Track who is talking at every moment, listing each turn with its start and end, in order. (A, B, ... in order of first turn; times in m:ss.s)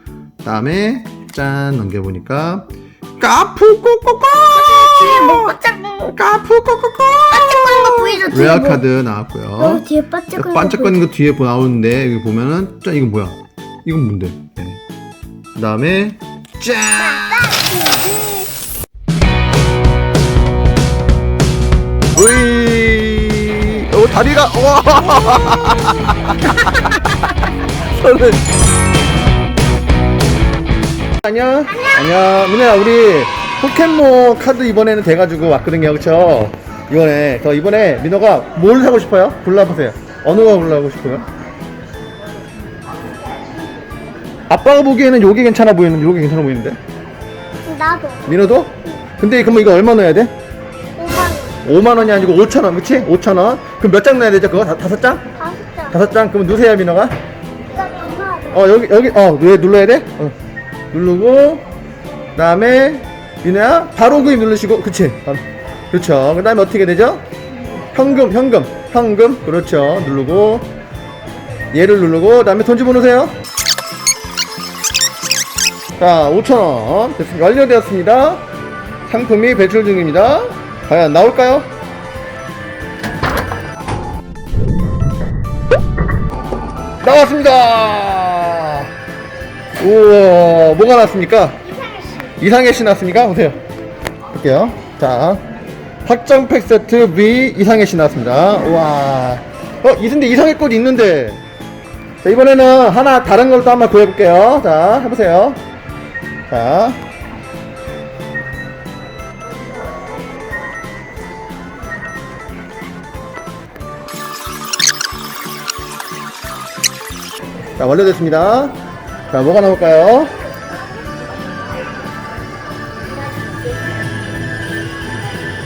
0:00.4-0:05.5 A
0:04.5-0:06.2 B
0:06.1-0:14.8 A
0:07.3-0:08.8 B
0:09.6-0:11.0 B
0:15.5-0:17.5 A
0:17.0-0:18.5 B
0:22.1-0:28.5 A
0:31.2-0:41.3 A
0:44.5-0:46.8 A
0:47.7-0:48.4 B
0:48.3-0:50.3 A
0:51.0-0:51.6 B
0:51.6-0:55.2 A
0:55.4-0:56.0 B
0:55.9-0:57.1 A
0:57.7-0:58.7 B
0:58.5-1:00.4 A
1:00.9-1:01.6 A
1:02.4-1:07.2 A
1:07.9-1:10.7 A
1:11.7-1:13.4 A
1:16.0-1:18.4 A
1:19.1-1:21.7 A
1:27.0-1:28.9 A
1:29.8-1:31.6 A
1:31.8-1:32.3 B
1:32.4-1:33.6 A
1:34.3-1:35.4 A
1:36.0-1:41.4 A
1:42.2-1:45.6 A
1:46.5-1:47.0 A
1:57.8-1:58.8 A
1:59.3-2:00.3 A